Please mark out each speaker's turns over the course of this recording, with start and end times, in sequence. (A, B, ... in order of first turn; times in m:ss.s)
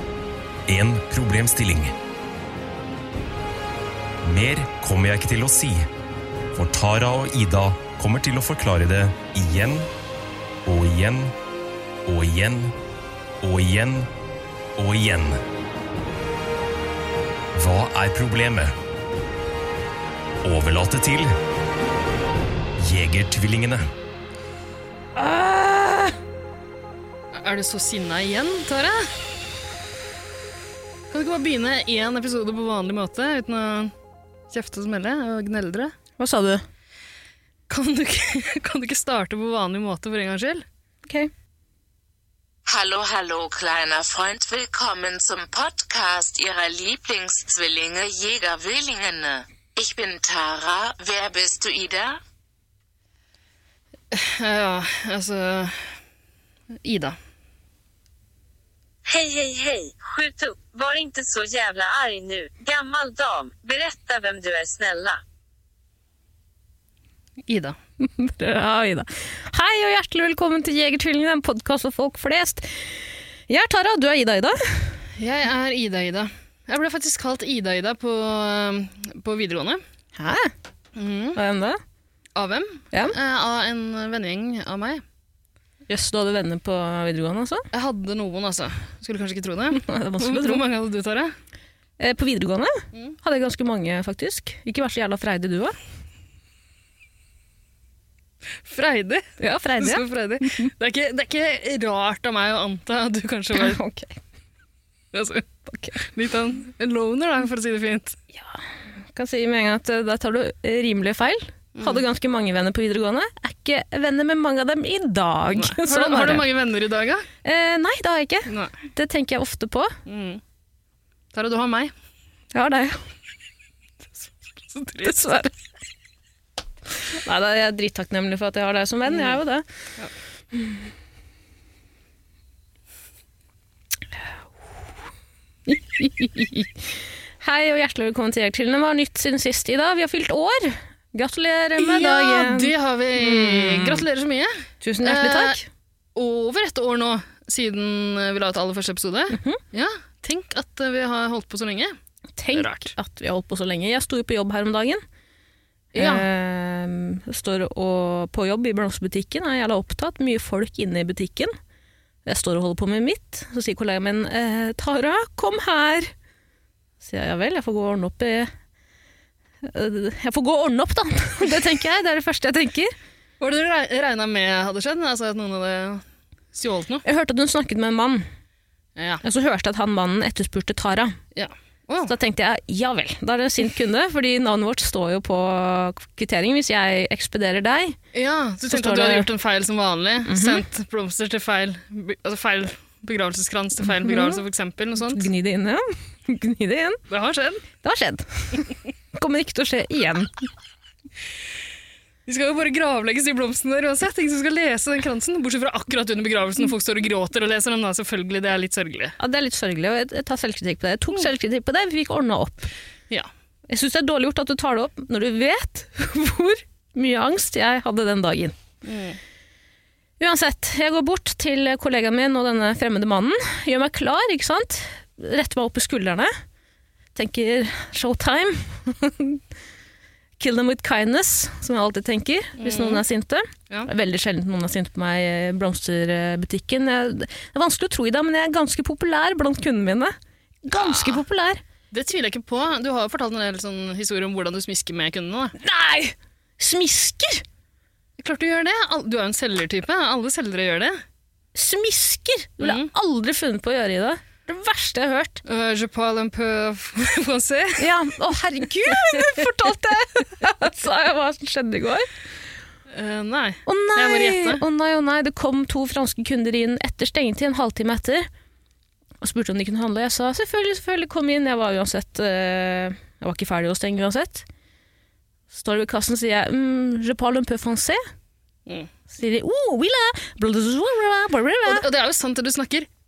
0:00.7-0:01.9 A
0:04.2-0:05.9 A
0:06.5-0:09.9 A
0:10.6-0:11.3 A
0:12.0-0:12.7 A
0:13.4-0:14.1 A
0:14.8-0:15.4 A
0:17.5-0:18.7 A
0:20.4-0:21.3 A
0:22.8-0:23.8 A
0:25.2-0:26.1 B
0:27.3-0:29.1 C
0:31.1-0:33.9 C
0:34.5-0:35.9 C
0:36.2-0:36.6 B
0:37.7-0:40.6 C
0:41.1-0:41.3 B
0:42.7-0:52.2 D
0:54.1-0:56.0 C
0:56.8-0:57.2 C
0:59.1-1:05.2 E
1:07.5-1:07.8 C
1:08.0-1:15.0 B
1:15.2-1:19.8 C
1:20.2-1:20.5 B
1:21.0-1:21.4 C
1:21.4-1:21.8 B
1:22.4-1:25.0 C
1:25.9-1:27.6 B
1:27.7-1:31.3 C
1:29.7-1:30.6 B
1:32.0-1:35.8 B
1:38.6-1:43.8 C
1:39.4-1:40.7 B
1:43.5-1:44.2 B
1:45.1-1:48.2 C
1:45.7-1:46.0 B
1:48.3-1:48.6 B
1:49.1-1:56.5 B
1:51.7-1:52.0 C
1:55.5-1:57.3 C
1:57.4-2:00.0 B
1:58.5-1:58.7 C
2:00.0-2:00.4 C
2:01.3-2:01.9 C
2:02.5-2:03.0 B
2:04.7-2:05.4 C
2:05.0-2:05.5 B
2:07.2-2:09.6 B
2:09.1-2:09.4 C
2:15.7-2:16.9 B
2:17.4-2:24.0 B
2:21.8-2:25.6 C
2:24.8-2:25.6 B
2:26.1-2:31.9 C
2:29.3-2:29.6 B
2:32.4-2:35.0 B
2:32.5-2:32.9 C
2:35.9-2:41.5 B
2:36.0-2:36.2 C
2:42.2-2:46.1 B
2:47.0-2:48.5 B
2:49.6-2:52.9 B
2:53.4-2:57.0 C
2:57.0-2:58.2 B
2:59.0-2:59.2 C
2:59.2-3:01.2 B
3:01.3-3:02.1 C
3:02.0-3:08.0 B
3:08.1-3:15.3 C
3:08.7-3:09.3 B
3:10.2-3:10.6 B
3:13.8-3:14.4 B
3:15.0-3:17.0 B
3:17.1-3:17.6 C
3:17.8-3:20.4 B
3:22.3-3:29.2 C
3:29.2-3:32.7 B
3:33.7-3:38.6 B
3:38.8-3:39.2 C
3:40.2-3:46.3 B
3:47.1-3:49.4 B
3:50.4-4:01.6 B
3:52.6-3:53.0 C
4:00.8-4:01.2 C
4:01.9-4:05.5 C
4:05.6-4:07.4 B
4:08.2-4:11.0 C
4:11.5-4:15.4 B
4:12.6-4:12.9 C
4:15.4-4:17.9 C
4:17.8-4:22.1 B
4:18.9-4:19.3 C
4:22.9-4:24.6 C
4:23.7-4:28.3 B
4:29.2-4:34.4 B
4:35.5-4:38.0 B
4:39.1-4:41.9 B
4:41.6-4:42.9 C